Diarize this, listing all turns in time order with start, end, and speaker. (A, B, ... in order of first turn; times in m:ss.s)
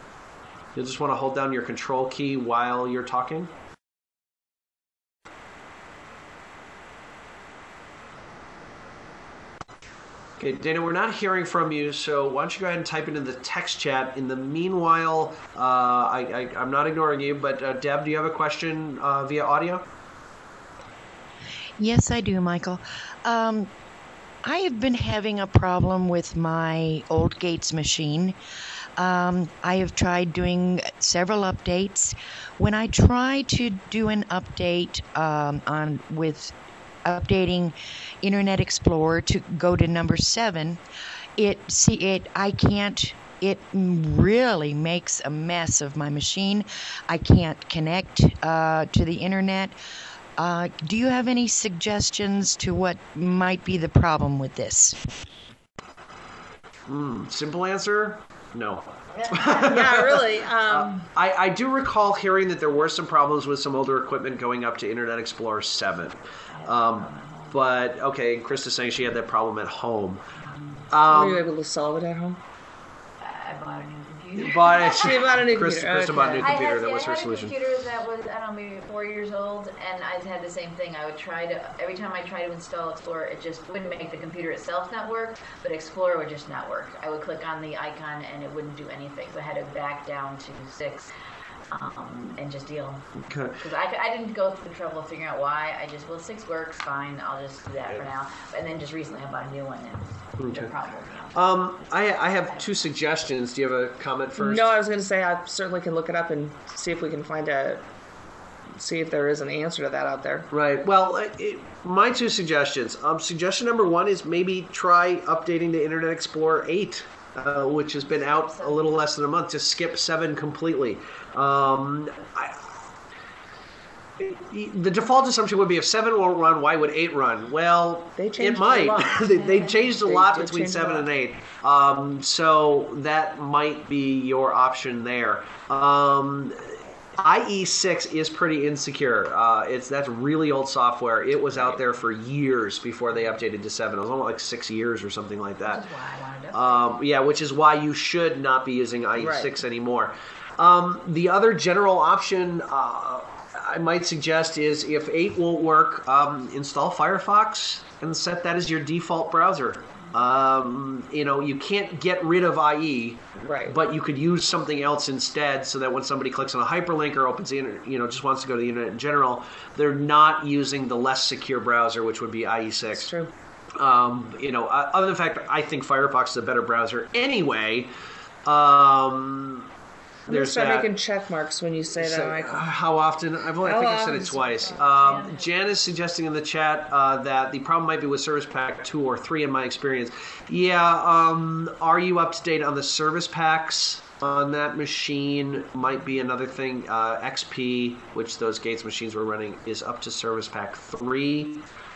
0:00.8-0:03.5 A
0:10.4-0:19.8 A
0:21.8-0:23.7 B
0:24.4-0:28.4 B
0:29.0-0:36.5 B
0:37.0-0:40.8 B
0:41.4-0:49.8 B
0:50.4-0:55.0 B
0:56.9-1:10.2 A
0:59.2-0:59.7 C
0:59.6-1:01.1 D
1:06.5-1:07.6 C
1:10.4-1:10.9 C
1:10.9-1:11.5 A
1:11.1-1:12.4 D
1:13.2-1:15.4 C
1:14.4-1:17.6 A
1:14.9-1:16.5 D
1:16.4-1:31.1 C
1:31.7-1:41.6 C
1:33.2-1:33.6 A
1:40.4-1:40.7 A
1:41.3-1:44.7 A
1:44.4-1:47.8 D
1:48.8-1:50.5 D
1:50.5-2:02.6 A
1:58.1-1:58.9 C
2:04.2-2:25.9 A
2:08.2-2:11.1 D
2:25.6-2:26.9 C
2:26.5-2:53.1 A
2:29.2-2:29.6 D
2:43.4-2:43.8 D
2:52.9-2:53.3 D
2:53.8-2:57.9 A
2:58.4-2:59.7 A
3:00.3-3:00.9 A
3:00.3-3:02.6 D
3:02.0-3:21.7 A
3:03.6-3:04.9 D
3:04.7-3:05.6 C